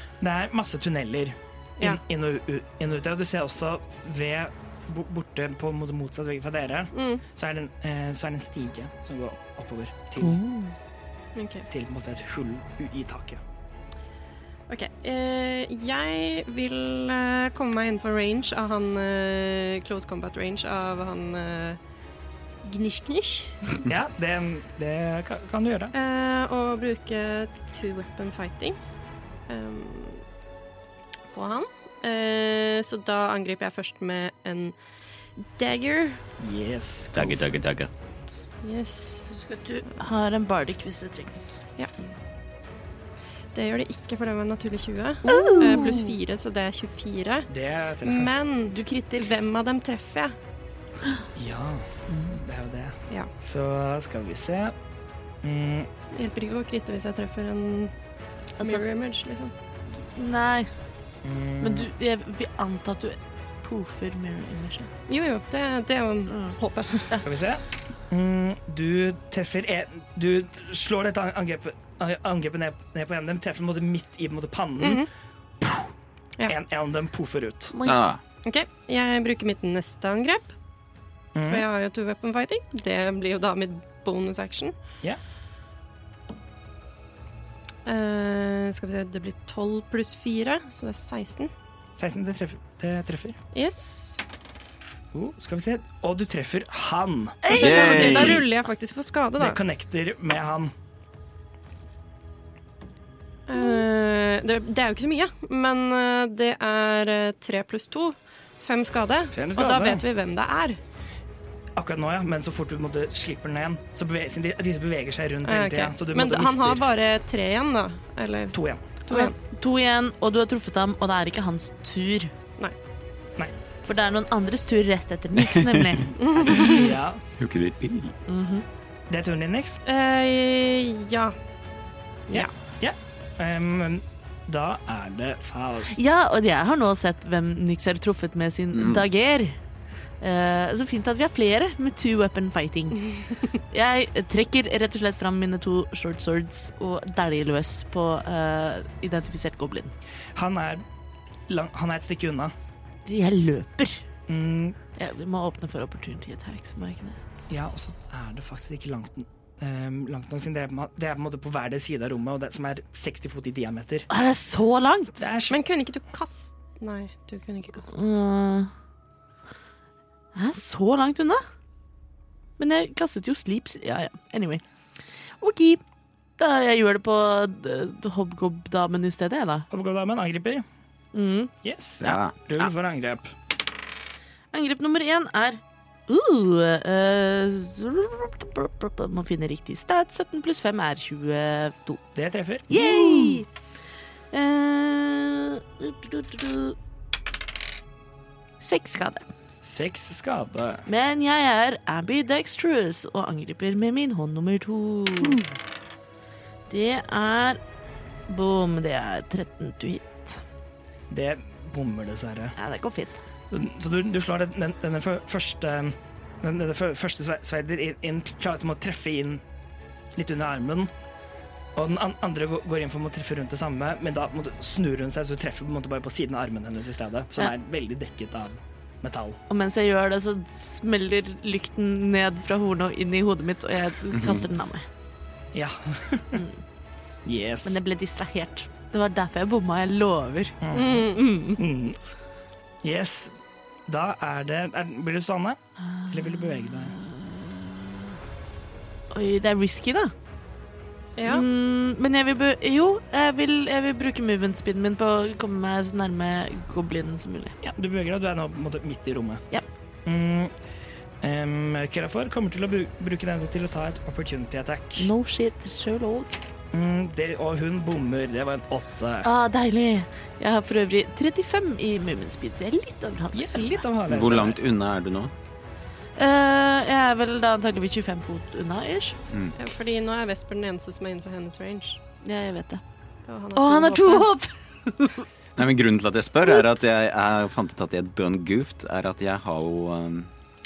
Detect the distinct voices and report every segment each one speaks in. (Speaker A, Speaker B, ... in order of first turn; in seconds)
Speaker A: 0.2-10.4, 11.7-13.4, 23.8-25.9, 36.4-37.6, 47.5-48.3, 51.4-54.7, 55.4-55.9, 61.2-61.9, 67.2-75.0, 75.6-75.9, 76.5-77.7, 81.3-81.7, 92.0-93.4, 95.1-98.2, 99.4-100.7, 109.3-110.0, 111.8-116.9, 118.5-119.0, 126.4-127.2, 129.1-129.8, 132.3-136.1, 150.4-150.8, 151.5-152.5, 154.3-154.8, 157.5-164.1, 165.2-165.6, 179.7-180.6, 181.6-183.3, 192.1-193.4, 199.6-200.9, 211.1-212.6, 213.5-219.4, 220.2-220.9, 221.8-229.4, 235.5-236.4, 237.2-237.8, 240.6-242.0, 242.8-243.3, 243.9-245.6, 246.1-247.0, 257.6-259.4, 260.1-260.5, 261.2-265.1, 266.7-269.3, 273.3-274.6
Speaker B: 6.9-7.2, 11.3-11.7, 14.7-21.8, 22.6-23.8, 25.9-28.8, 29.5-30.2, 31.3-34.8, 35.4-36.2, 38.6-39.3, 43.5-47.5, 48.0-50.4, 56.1-57.9, 58.6-59.5, 65.1-67.2, 74.8-75.1, 78.4-80.5, 81.4-84.8, 87.8-91.5, 93.5-94.2, 97.5-99.6, 103.5-110.8, 115.5-118.6, 119.1-119.3, 126.2-127.0, 129.8-131.4, 165.5-167.9, 240.7-241.2, 251.2-251.4, 279.6-282.0, 283.3-284.3
Speaker C: 10.2-10.7, 39.3-41.6, 45.2-46.2, 48.7-49.3, 60.0-60.7, 61.6-64.9, 77.7-78.0, 97.4-98.4, 119.1-122.3, 123.8-126.5, 128.3-128.6, 135.9-139.6, 140.2-149.9, 153.1-154.0, 154.9-157.2, 164.1-165.3, 167.9-168.7, 170.3-171.4, 172.6-174.6, 175.4-175.8, 176.4-179.7, 181.1-181.5, 184.5-192.0, 192.7-193.5, 194.3-196.8, 198.6-199.3, 200.9-205.4, 206.7-207.6, 208.3-210.4, 212.6-213.2, 229.5-234.9, 237.6-241.6, 245.8-248.2, 249.1-250.1, 251.2-257.6, 265.0-266.3, 269.2-273.8, 276.2-279.2, 282.2-282.8, 283.6-285.3
Speaker D: 37.1-37.9, 77.8-78.2, 97.5-98.5, 127.4-128.2, 138.7-139.1, 182.0-182.4, 234.1-234.4, 274.1-275.3, 285.6-290.3